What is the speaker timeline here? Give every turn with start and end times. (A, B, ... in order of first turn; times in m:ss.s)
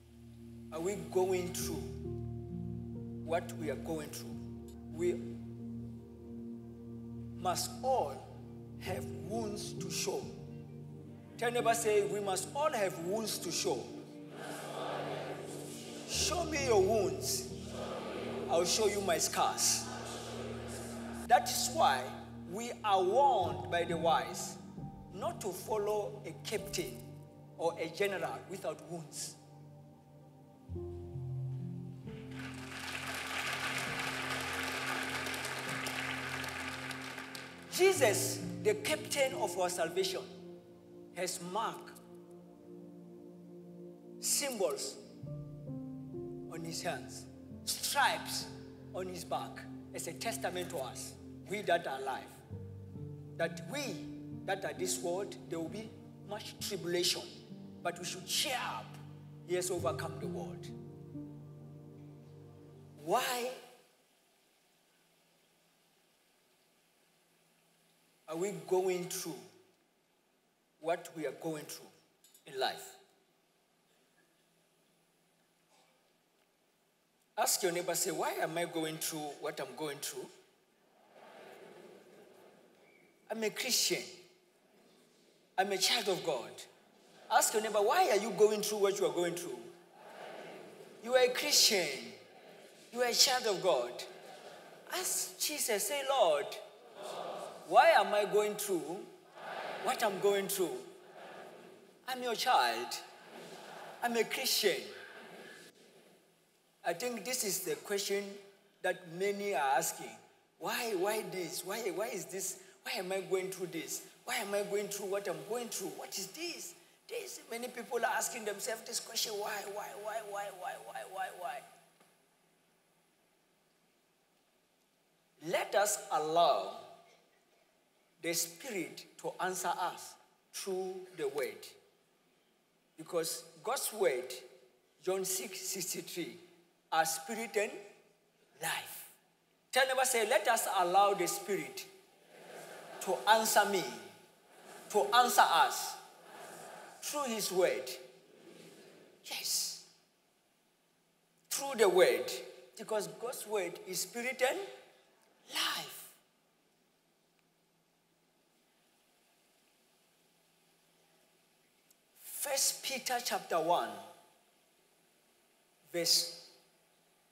0:00.7-0:02.0 A
0:03.2-0:05.3 A
0:07.4-0:08.3 A
0:08.8-0:10.3 A
0:11.4-0:13.9 A
0:16.1-0:17.5 A
0:18.5-0:19.9 A
0:21.3-0:24.6 A
0:25.1-0:27.1 A
0:27.6-0:29.4 A
0:37.7-0:40.4 A
0:41.1-0:42.0 A
0:44.2-0:45.0 A
0:46.5-0:52.4 A
0:53.4-0:59.0 A
0:59.5-1:00.7 A
1:03.0-1:03.6 A
1:08.3-1:09.4 A
1:10.8-1:11.9 A
1:12.4-1:13.0 A
1:17.4-1:20.3 A
1:23.3-1:24.1 A
1:25.6-1:26.7 A
1:27.3-1:29.7 A
1:31.0-1:32.2 A
1:32.9-1:34.1 A
1:34.9-1:36.6 A
1:37.6-1:39.1 A
1:39.8-1:40.9 A
1:42.1-1:43.0 A
1:44.0-1:44.9 A
1:46.8-2:01.6 A
2:05.4-2:06.9 A
2:08.2-2:11.8 A
2:13.0-2:14.5 A
2:15.0-2:17.8 A
2:18.6-2:19.1 A
2:19.7-2:21.9 A
2:23.0-2:24.0 A
2:24.9-2:26.0 A
2:27.0-2:28.0 A
2:29.2-2:29.9 A
2:31.5-2:34.7 A
2:35.5-2:36.1 A
2:42.2-2:44.0 A
2:45.9-2:46.5 A